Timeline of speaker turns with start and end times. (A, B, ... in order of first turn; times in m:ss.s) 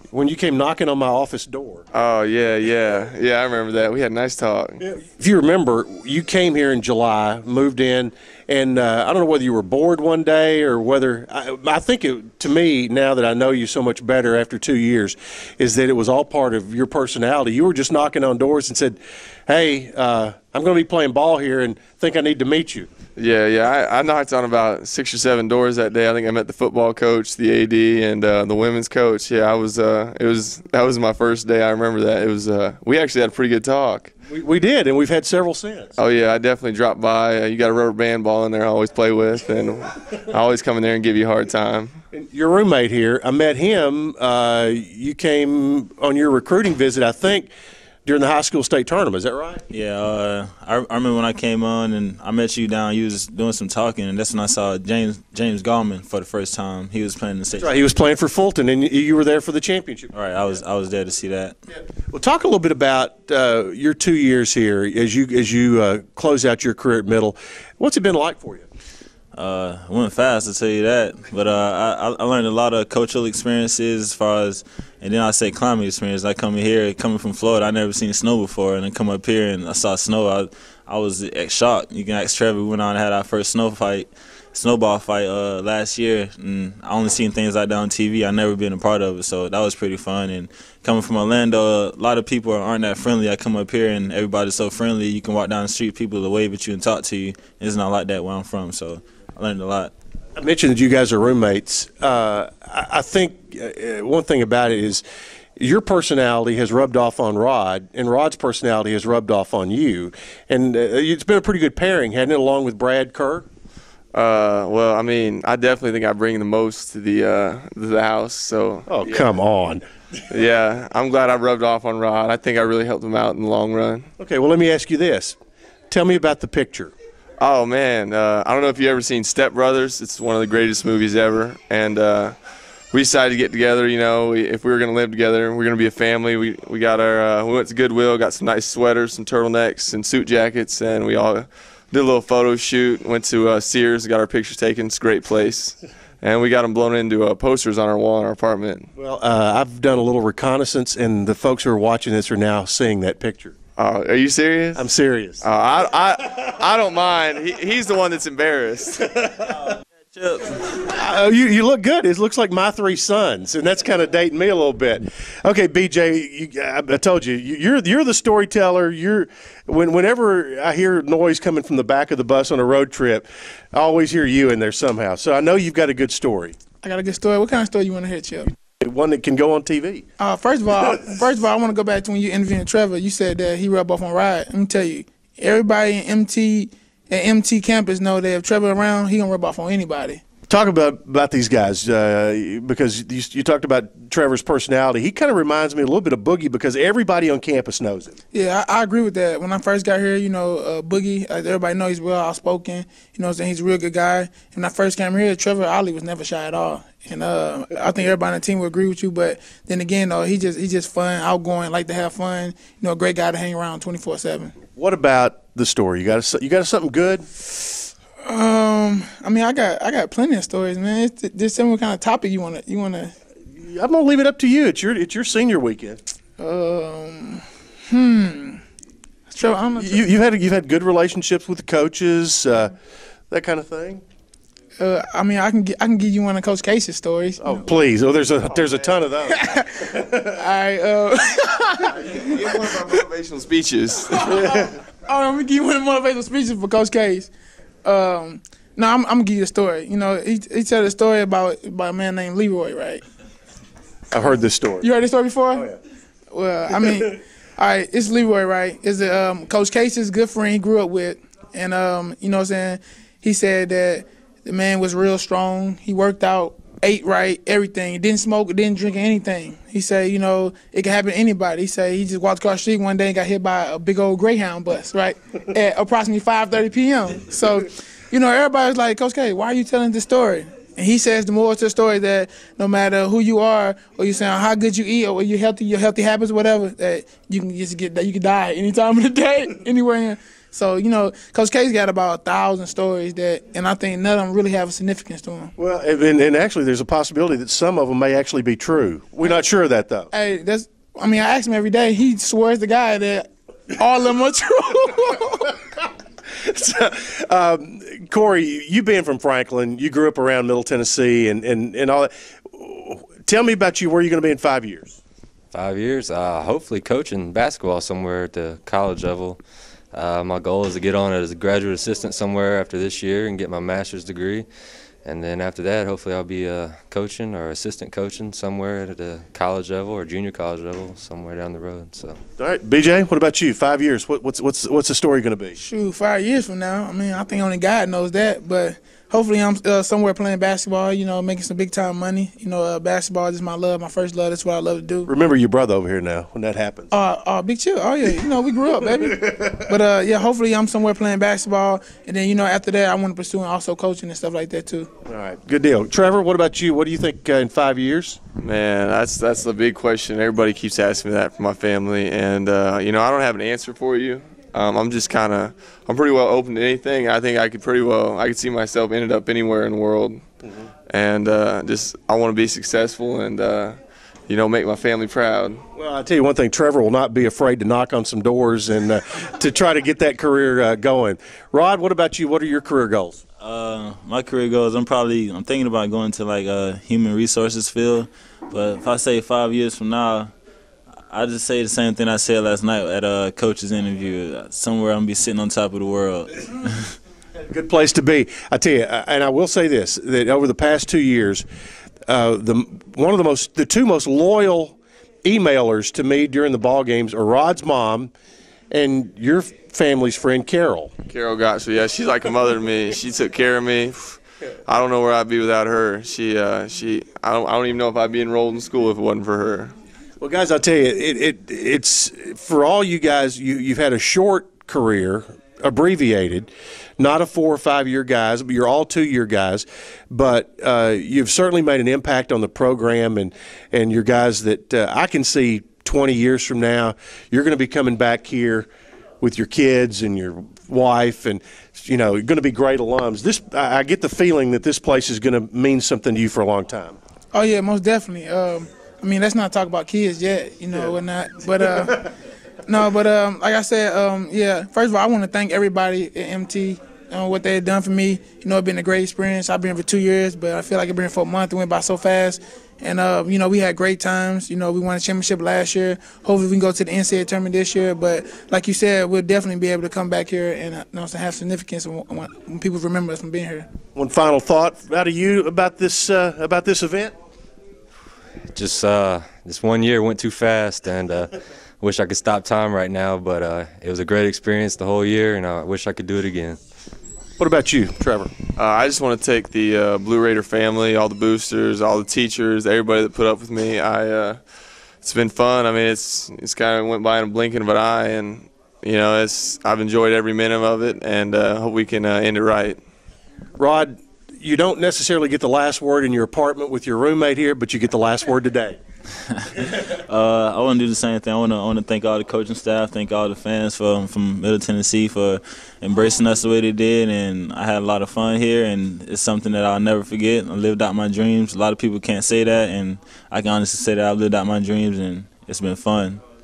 0:00.1-0:01.9 A
0:01.9-0:04.8 B
0:04.8-0:22.9 A
0:23.2-0:34.1 B
0:34.3-0:36.0 A
0:36.0-0:42.0 B
0:42.1-0:47.5 A
0:48.1-0:49.6 A
0:49.7-0:57.7 C
0:57.6-1:00.1 A
1:00.1-1:01.6 C
1:02.1-1:08.7 A
1:09.4-1:39.9 C
1:40.4-1:45.0 A
1:45.6-1:53.5 A
1:54.1-1:59.4 B
1:58.9-1:59.8 A
2:00.3-2:04.1 B
2:04.2-2:05.4 A
2:05.9-2:06.9 A
2:07.4-2:12.4 B
2:12.9-2:28.9 B
2:29.0-2:33.6 A
2:33.8-2:34.9 B
2:34.8-2:35.5 A
2:35.4-2:39.1 B
2:39.1-2:39.5 A
2:39.5-2:40.5 C
2:40.7-2:56.6 A
2:56.8-2:58.5 D
2:58.8-3:00.1 A
3:00.2-3:10.2 D
3:10.5-3:18.2 A
3:18.3-3:34.6 D
3:34.8-3:37.3 A
3:38.2-3:43.1 D
3:43.5-3:46.0 A
3:46.4-3:48.6 D
3:49.3-3:50.0 D
3:49.8-3:52.7 A
3:53.3-3:54.0 A
3:54.8-3:57.7 D
3:57.4-4:00.2 A
3:58.6-3:58.9 B
3:59.2-4:03.0 D
4:01.9-4:04.4 B
4:04.0-4:07.3 D
4:07.8-4:13.0 D
4:14.1-4:14.9 A
4:14.8-4:15.7 D
4:16.3-4:55.5 D
4:55.6-5:00.1 A
5:00.1-5:05.6 D
5:06.3-5:15.0 A
5:15.5-5:19.4 E
5:19.9-5:24.5 E
5:25.0-5:32.2 E
5:32.4-5:35.6 A
5:35.6-5:45.1 D
5:45.1-5:46.9 A
5:46.9-5:54.9 D
5:49.2-5:49.6 A
5:55.1-5:58.2 A
5:58.4-6:10.2 B
6:10.9-6:15.6 B
6:15.8-6:23.2 A
6:23.4-6:30.3 C
6:31.1-6:37.0 C
6:37.4-6:41.4 A
6:42.1-6:48.1 A
6:48.7-6:50.9 A
6:51.1-6:59.7 B
7:00.2-7:18.7 A
7:19.2-7:27.0 A
7:27.3-7:32.1 D
7:32.7-7:53.7 D
7:54.0-7:57.1 A
7:58.5-8:06.6 E
8:07.4-8:08.3 A
8:08.6-8:14.4 B
8:15.0-8:22.8 B
8:23.6-8:28.8 A
8:29.4-8:46.2 C